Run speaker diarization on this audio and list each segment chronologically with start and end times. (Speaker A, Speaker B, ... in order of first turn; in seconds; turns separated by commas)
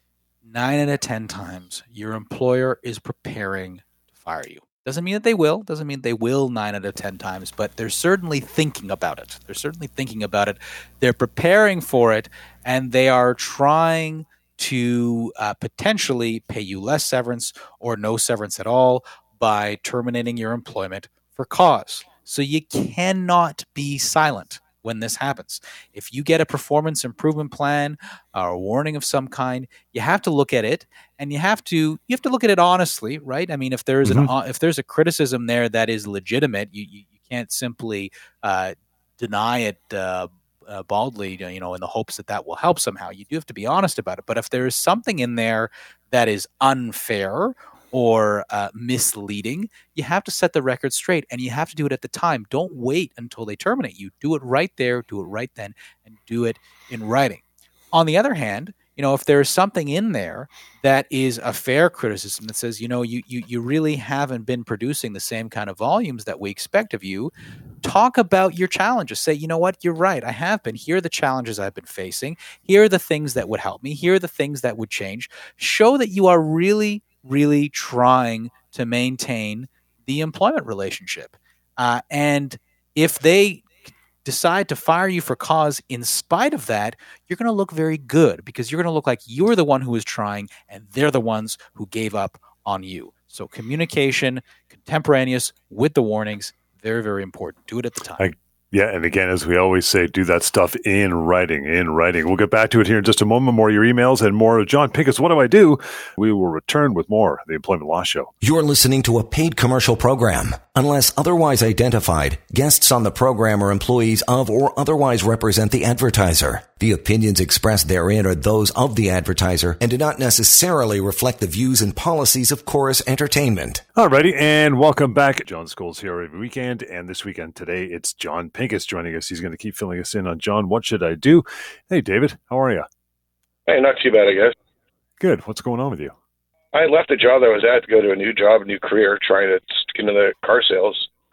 Speaker A: 0.4-67.3, Speaker A: 67.8-98.2, Speaker B: 98.2-108.3, Speaker C: 108.4-123.8, Speaker B: 124.0-132.9, Speaker D: 133.7-134.5, Speaker B: 135.2-136.1, Speaker D: 136.7-141.1